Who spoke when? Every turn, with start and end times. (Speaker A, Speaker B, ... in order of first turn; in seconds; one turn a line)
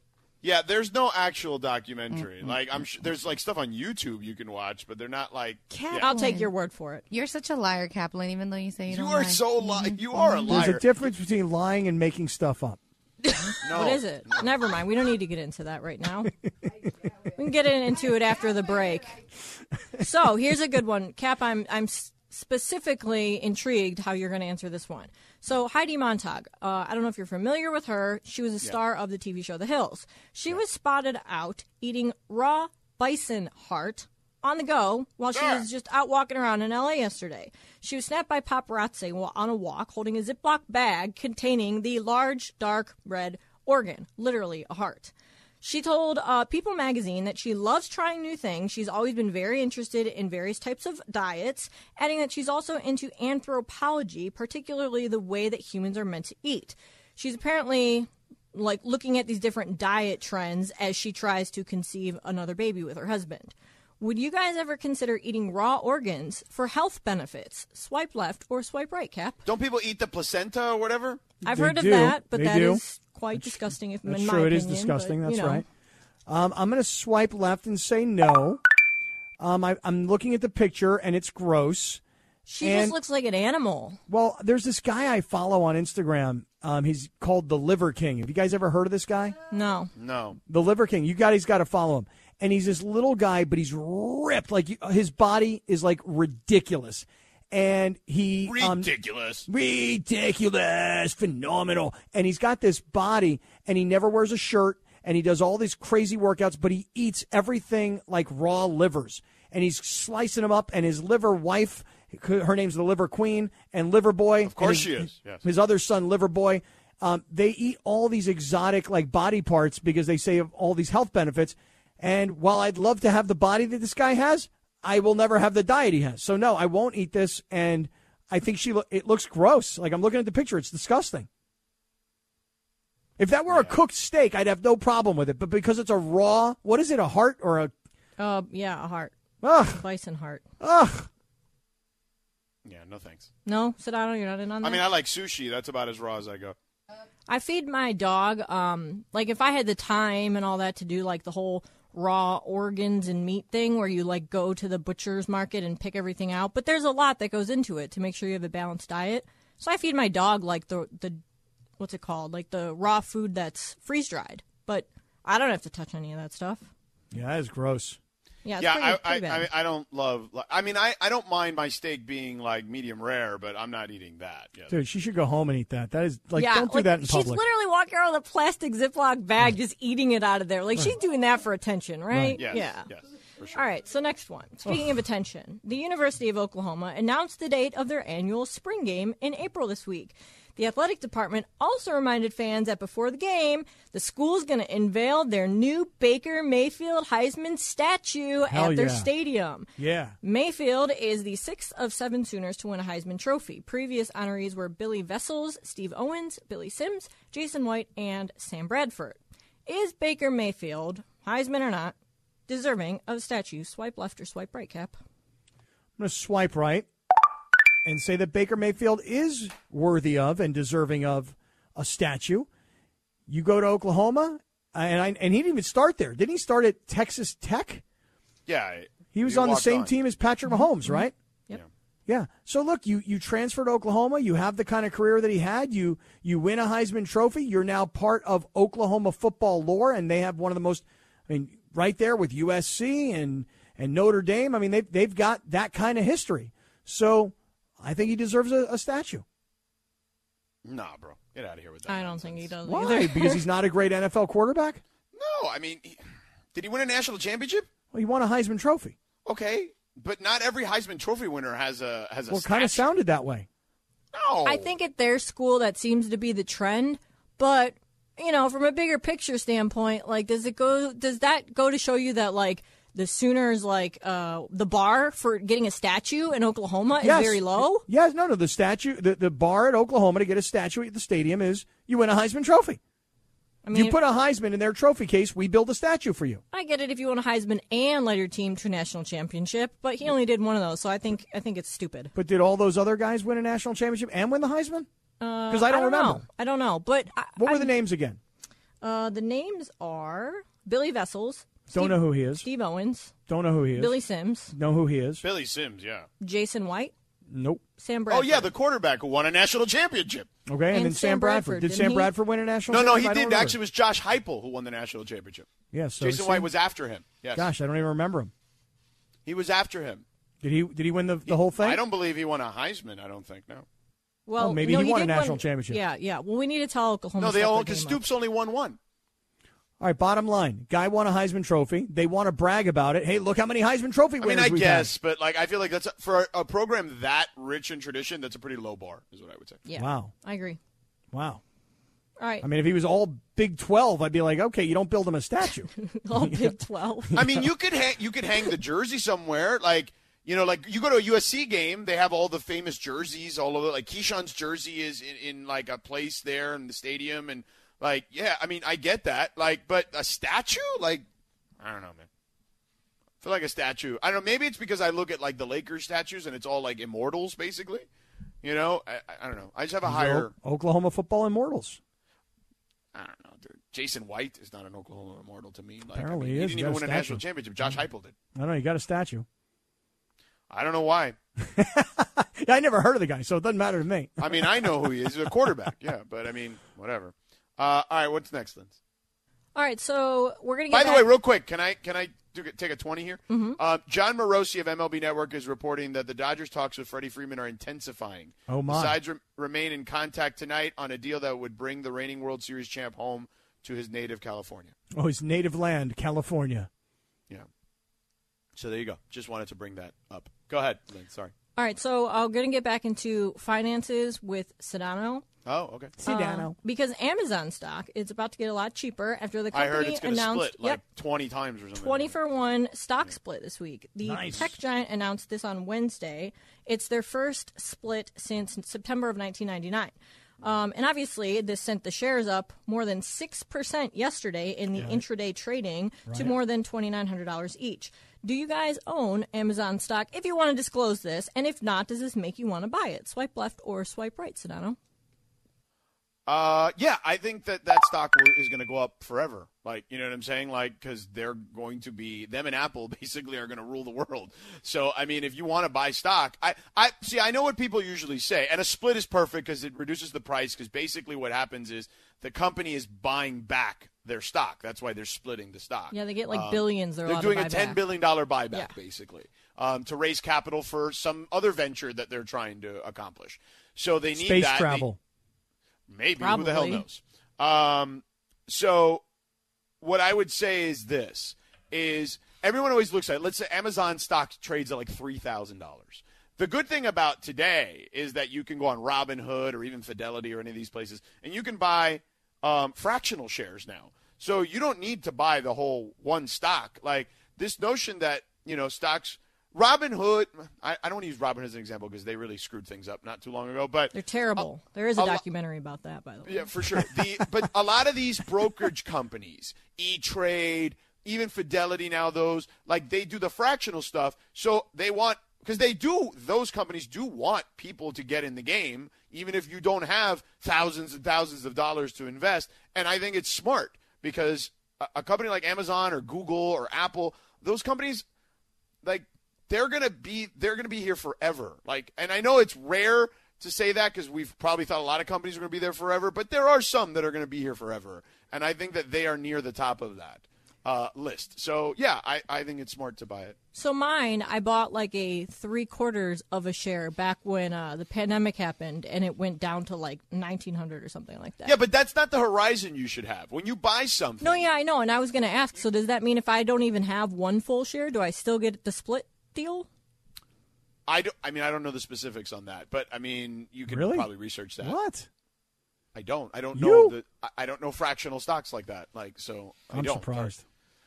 Speaker A: 0.4-6.1
Speaker B: 5.7-6.5
Speaker C: 6.0-7.0
Speaker B: 7.1-10.6
Speaker A: 8.9-10.9
Speaker D: 10.5-12.8
Speaker C: 13.6-16.3
Speaker A: 13.6-14.4
Speaker C: 17.2-19.2
Speaker C: 20.0-69.4
Speaker A: 35.3-35.7
Speaker A: 69.5-71.2
Speaker D: 71.4-72.8
Speaker C: 71.4-75.6
Speaker D: 73.3-75.7
Speaker D: 76.3-78.6
Speaker D: 79.4-82.0
Speaker C: 82.5-84.0
Speaker D: 82.6-83.0
Speaker D: 84.1-89.3
Speaker C: 89.5-89.9
Speaker A: 90.0-90.4
Speaker D: 90.5-98.9
Speaker A: 98.5-99.5
Speaker D: 99.5-131.3
Speaker A: 114.5-115.4
Speaker D: 133.2-137.7
Speaker A: 133.5-133.7
Speaker C: 138.2-139.2
Speaker D: 139.4-139.8
Speaker C: 139.7-140.4
Speaker D: 140.6-141.1
Speaker A: 142.7-143.3
Speaker C: 143.5-144.8
Speaker A: 144.6-146.6
Speaker C: 147.3-161.2
Speaker C: 161.8-166.7
Speaker D: 167.1-168.0
Speaker C: 168.4-169.5
Speaker A: 168.6-174.8
Speaker D: 174.7-177.4
Speaker C: 176.4-182.9
Speaker D: 182.1-182.4
Speaker A: 182.4-183.6
Speaker C: 183.5-199.7
Speaker D: 198.5-199.1
Speaker D: 199.8-200.2
Speaker C: 200.2-211.9
Speaker C: 212.5-214.9
Speaker D: 216.0-216.9
Speaker D: 217.8-222.5
Speaker D: 223.3-227.8
Speaker A: 228.5-229.9
Speaker D: 229.1-231.1
Speaker C: 230.5-231.6
Speaker D: 232.1-249.2
Speaker A: 250.7-252.5
Speaker C: 251.9-253.4
Speaker D: 252.7-254.8
Speaker A: 255.1-256.0
Speaker A: 256.5-257.7
Speaker D: 257.9-259.0
Speaker A: 259.2-262.8
Speaker D: 262.3-263.5
Speaker A: 264.1-264.7
Speaker C: 264.4-277.9
Speaker D: 277.0-282.8
Speaker C: 283.6-284.0
Speaker D: 283.7-286.4
Speaker C: 286.5-292.1
Speaker D: 292.1-294.9
Speaker C: 295.2-297.7
Speaker D: 295.5-296.2
Speaker D: 297.4-298.2
Speaker C: 298.8-303.1
Speaker D: 301.7-302.4
Speaker D: 303.3-303.9
Speaker C: 303.8-304.5
Speaker D: 304.5-305.2
Speaker A: 305.2-306.1
Speaker C: 306.2-306.9
Speaker D: 307.3-307.6
Speaker C: 307.8-308.5
Speaker A: 308.1-310.3
Speaker D: 310.5-313.6
Speaker C: 310.7-312.1
Speaker A: 312.7-315.5
Speaker D: 315.7-316.5
Speaker A: 316.0-317.5
Speaker D: 317.4-318.3
Speaker A: 319.3-320.0
Speaker D: 320.4-321.8
Speaker A: 321.3-323.7
Speaker C: 324.3-328.0
Speaker D: 324.4-325.8
Speaker A: 327.2-328.8
Speaker D: 329.8-334.9
Speaker A: 334.2-339.6
Speaker C: 339.7-340.6
Speaker D: 339.8-340.1
Speaker D: 341.1-341.4
Speaker C: 342.2-342.5
Speaker D: 342.4-346.6
Speaker C: 345.7-347.2
Speaker D: 347.1-347.4
Speaker A: 347.1-361.1
Speaker A: 361.6-362.1
Speaker A: 363.2-367.9
Speaker A: 368.4-370.3
Speaker D: 369.9-371.8
Speaker A: 372.9-378.1
Speaker D: 375.9-377.8
Speaker D: 378.4-379.3
Speaker A: 380.5-381.2
Speaker D: 381.4-385.7
Speaker A: 384.2-388.8
Speaker C: 389.6-391.1
Speaker A: 390.7-404.7
Speaker C: 393.3-393.6
Speaker D: 398.5-399.0
Speaker D: 405.0-406.7
Speaker A: 408.6-411.3
Speaker C: 411.6-415.2
Speaker A: 415.4-415.9
Speaker D: 416.0-416.6
Speaker C: 416.0-420.8
Speaker A: 419.5-422.1
Speaker C: 421.8-444.8
Speaker D: 424.0-424.5
Speaker D: 436.1-436.3
Speaker A: 446.3-474.9
Speaker C: 465.9-467.8
Speaker D: 474.1-475.0
Speaker A: 475.9-479.0
Speaker C: 476.2-476.8
Speaker A: 479.8-505.2
Speaker C: 503.9-506.9
Speaker A: 506.3-528.0
Speaker A: 528.8-543.4
Speaker C: 543.5-551.6
Speaker A: 551.5-554.5
Speaker C: 554.2-559.7
Speaker A: 560.9-564.8
Speaker D: 563.7-564.1
Speaker D: 564.6-565.1
Speaker A: 566.0-570.3
Speaker D: 566.5-567.0
Speaker D: 569.7-570.4